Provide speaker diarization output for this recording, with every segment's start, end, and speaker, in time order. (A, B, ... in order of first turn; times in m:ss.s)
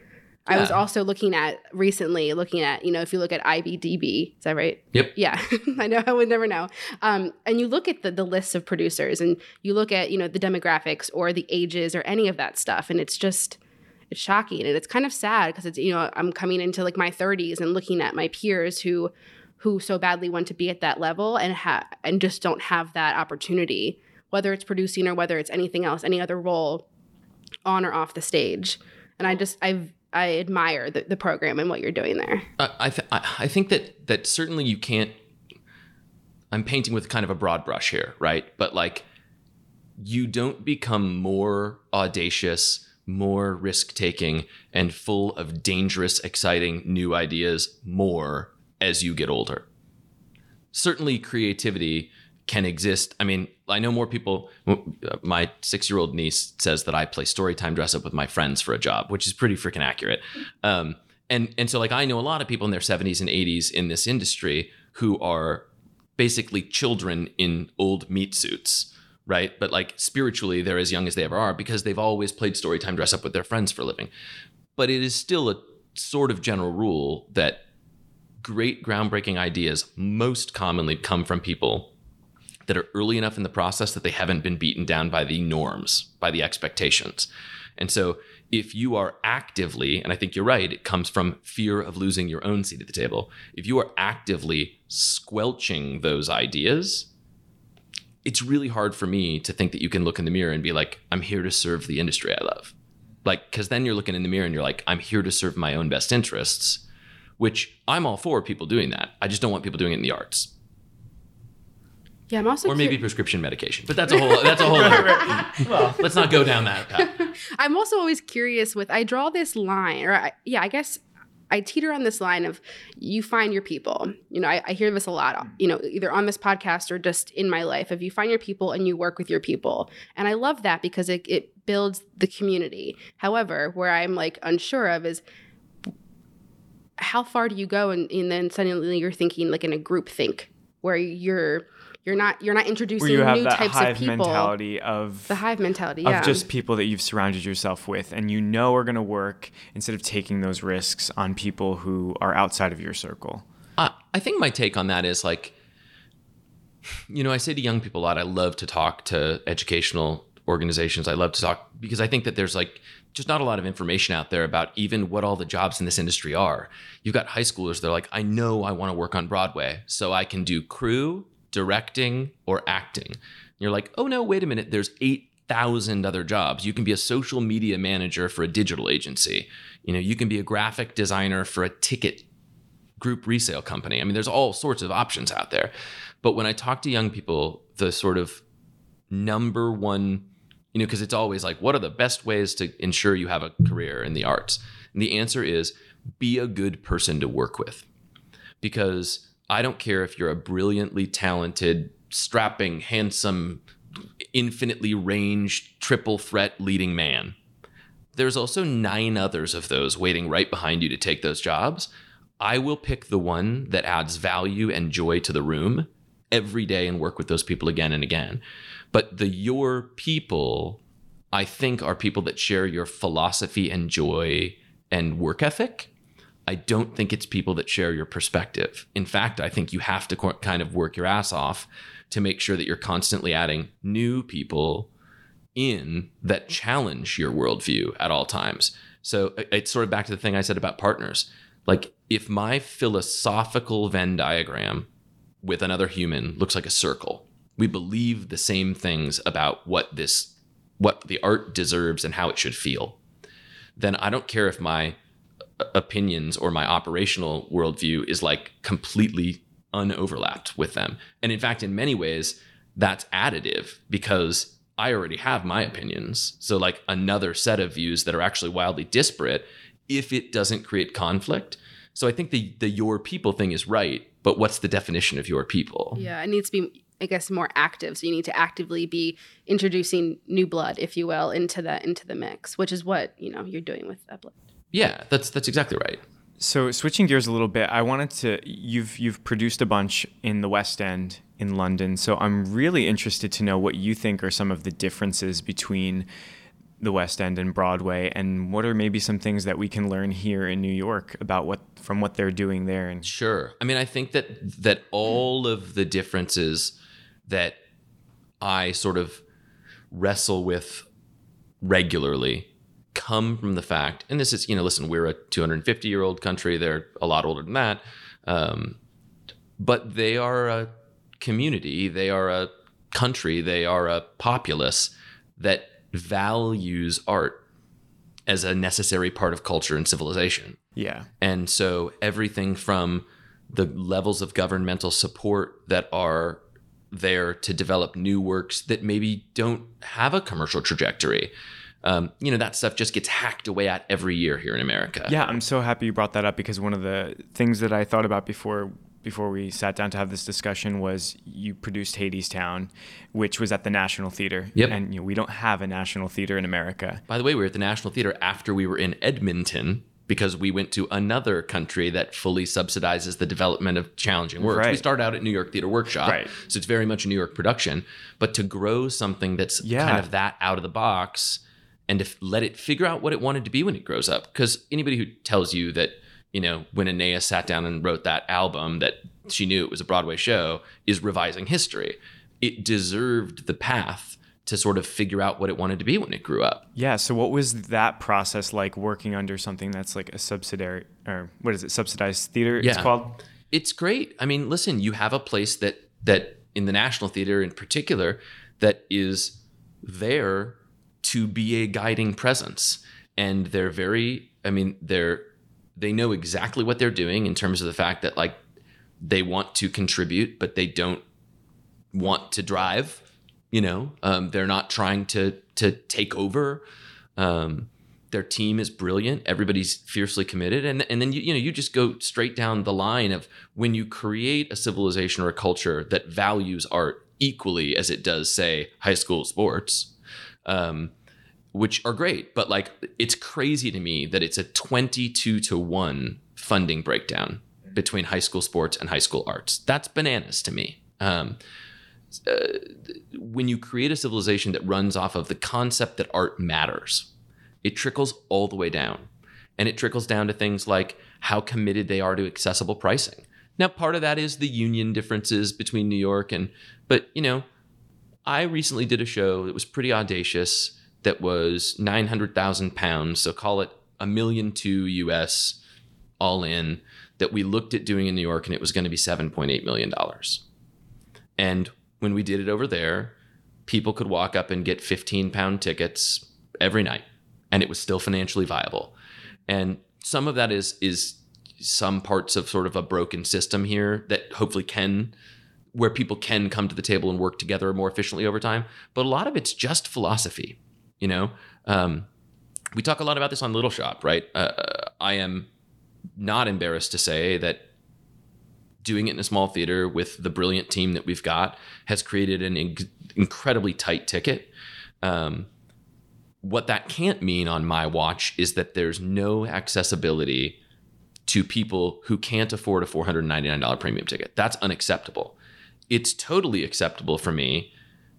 0:00.5-0:13.6 A
0:00.5-0:00.8 B
0:14.1-0:26.8 A
0:27.7-0:32.5 A
0:32.6-0:35.1 B
0:36.5-0:39.0 B
0:40.0-0:49.7 B
0:50.7-1:05.6 B
1:06.2-1:14.1 B
1:14.8-1:17.6 B
1:18.4-1:21.9 B
1:22.7-1:37.1 B
1:38.2-1:42.7 B
1:43.2-1:46.8 B
1:47.4-1:50.5 B
1:52.3-1:53.0 A
1:52.6-1:57.1 B
1:54.5-1:55.4 A
1:54.9-1:56.0 C
1:57.0-2:15.2 A
2:17.0-2:24.6 A
2:23.0-2:25.4 C
2:25.3-2:26.4 A
2:26.0-2:33.4 C
2:33.8-2:35.5 B
2:37.1-3:02.2 B
3:03.0-3:08.4 B
3:09.1-3:17.8 B
3:18.6-3:23.6 B
3:24.3-3:27.4 B
3:28.2-3:38.4 B
3:38.9-3:40.8 B
3:41.3-3:45.9 B
3:46.5-3:54.9 B
3:55.6-4:04.9 B
4:05.4-4:13.0 B
4:13.8-4:15.0 B
4:15.6-4:36.0 B
4:36.0-4:44.3 A
4:44.7-4:46.0 B
4:46.4-4:56.1 C
4:56.8-5:03.1 C
5:03.0-5:06.8 B
5:07.3-5:07.6 B
5:08.4-5:09.2 B
5:09.9-5:10.9 B
5:11.6-5:18.8 B
5:19.6-5:27.4 B
5:28.3-5:30.6 B
5:30.8-5:31.1 C
5:31.2-5:41.3 B
5:41.8-5:45.3 B
5:45.1-5:57.0 C
5:57.1-6:26.7 B
6:04.4-6:04.8 C
6:06.0-6:06.3 C
6:09.6-6:10.1 C
6:26.8-6:33.2 C
6:32.6-6:32.9 B
6:33.5-6:45.2 B
6:45.8-6:48.4 B
6:49.0-6:51.0 B
6:51.9-6:56.6 B
6:57.2-7:09.9 B
7:10.4-7:10.9 B
7:11.5-7:21.4 B
7:22.3-7:27.1 B
7:27.6-7:37.5 B
7:38.3-7:45.6 B
7:46.2-7:50.4 B
7:51.4-7:53.1 B
7:53.7-7:58.9 B
7:59.5-8:05.2 B
8:05.7-8:12.1 B
8:12.8-8:15.5 B
8:16.2-8:17.6 B
8:18.8-8:24.5 B
8:25.0-8:25.5 B
8:26.4-8:30.6 B
8:31.3-8:35.4 B
8:35.9-8:37.7 B